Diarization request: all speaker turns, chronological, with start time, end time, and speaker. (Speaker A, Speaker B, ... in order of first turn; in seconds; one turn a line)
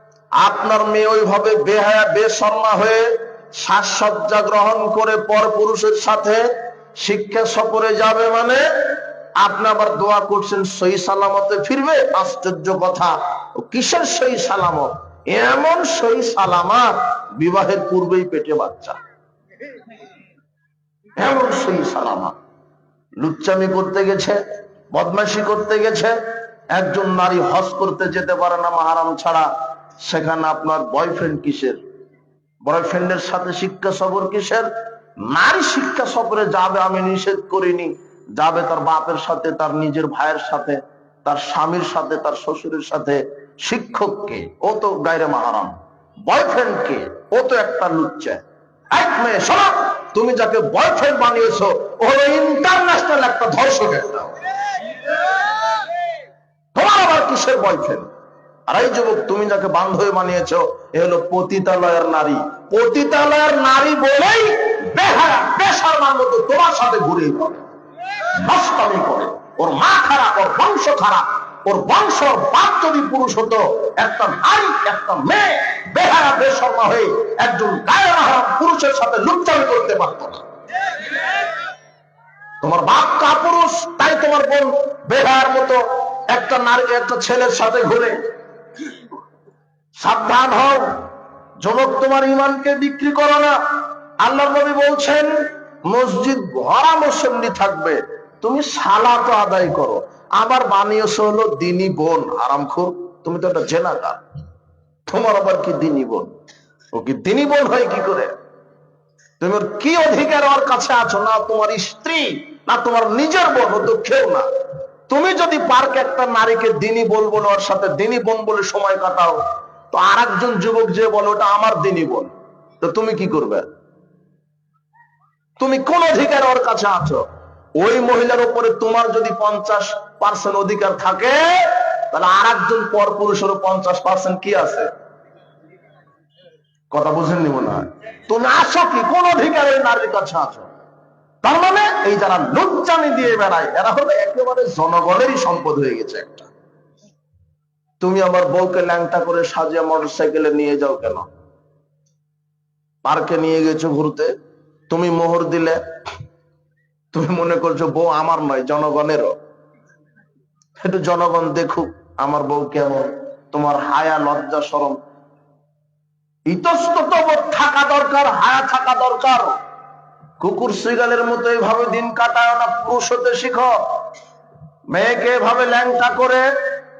Speaker A: 0.4-19.0
Speaker A: 21.2-22.3
Speaker A: 23.2-24.4
Speaker A: 24.9-26.1
Speaker A: 26.7-29.5
Speaker A: 30.0-31.8
Speaker A: 32.6-34.7
Speaker A: 35.2-54.3
Speaker A: 56.7-58.1
Speaker A: 58.7-67.6
Speaker A: 68.3-80.4
Speaker A: 82.6-88.2
Speaker A: 90.0-91.0
Speaker A: 91.6-93.6
Speaker A: 94.2-95.3
Speaker A: 95.9-104.2
Speaker A: 105.1-106.3
Speaker A: 106.9-108.3
Speaker A: 109.4-114.5
Speaker A: 115.1-119.4
Speaker A: 119.9-123.6
Speaker A: 125.6-127.2
Speaker A: 127.8-134.9
Speaker A: 136.9-140.7
Speaker A: 141.4-146.5
Speaker A: 148.0-151.2
Speaker A: 153.0-154.3
Speaker A: 154.9-155.8
Speaker A: 157.1-159.3
Speaker A: 160.8-165.0
Speaker A: 166.5-169.5
Speaker A: 170.4-173.7
Speaker A: 174.9-176.4